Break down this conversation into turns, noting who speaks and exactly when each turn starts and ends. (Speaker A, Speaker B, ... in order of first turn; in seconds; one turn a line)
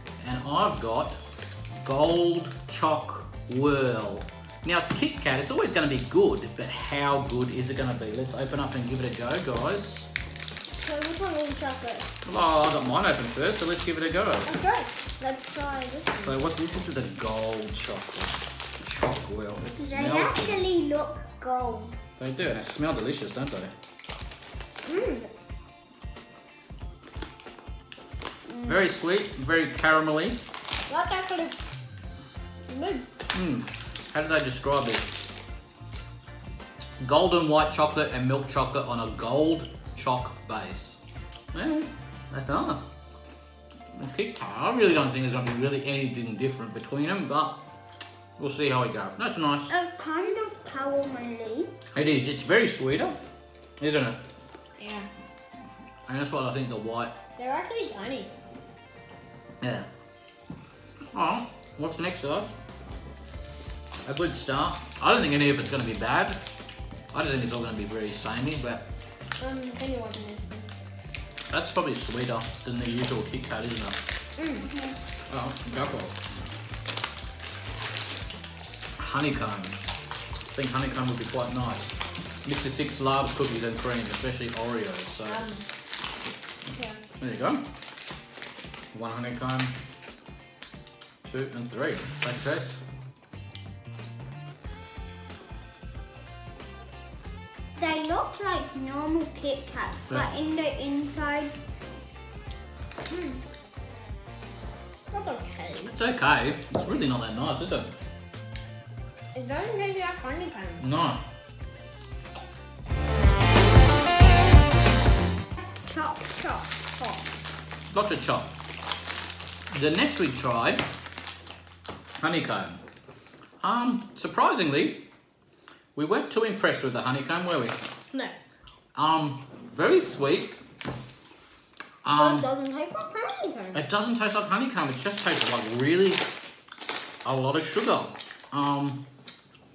Speaker A: 0.2-1.2
Speaker A: 1.8-10.1
Speaker B: 10.8-12.2
Speaker A: 12.2-14.5
Speaker B: 14.5-16.4
Speaker A: 16.1-20.7
Speaker C: 19.8-21.9
Speaker A: 22.2-23.7
Speaker B: 24.9-25.3
Speaker C: 28.5-28.9
Speaker A: 28.6-30.4
Speaker B: 30.9-31.6
Speaker B: 32.7-33.1
Speaker A: 33.3-35.1
Speaker A: 37.0-41.0
Speaker A: 41.5-42.9
Speaker A: 43.9-47.6
Speaker A: 48.4-49.7
Speaker C: 49.7-51.7
Speaker A: 51.9-53.2
Speaker A: 53.8-54.2
Speaker B: 54.8-55.1
Speaker A: 56.1-57.2
Speaker B: 57.4-58.3
Speaker A: 59.6-59.9
Speaker A: 61.1-62.6
Speaker A: 64.0-66.4
Speaker A: 67.1-68.9
Speaker B: 69.4-70.7
Speaker A: 71.5-74.0
Speaker B: 74.4-74.7
Speaker A: 75.3-76.2
Speaker A: 79.0-79.8
Speaker A: 80.5-85.4
Speaker B: 85.3-85.6
Speaker B: 86.7-87.0
Speaker A: 87.2-87.6
Speaker A: 88.9-89.7
Speaker A: 91.2-92.8
Speaker C: 97.8-101.6
Speaker B: 103.1-103.4
Speaker B: 105.1-105.9
Speaker A: 105.8-107.9
Speaker B: 109.3-110.9
Speaker A: 110.8-111.2
Speaker C: 115.8-117.2
Speaker B: 116.4-117.2
Speaker A: 117.9-118.5
Speaker A: 119.7-120.8
Speaker A: 122.2-122.8
Speaker A: 123.6-125.1
Speaker A: 126.0-127.8
Speaker A: 128.9-130.6
Speaker A: 132.0-132.5
Speaker B: 132.1-133.8
Speaker A: 133.7-136.2
Speaker A: 137.2-139.0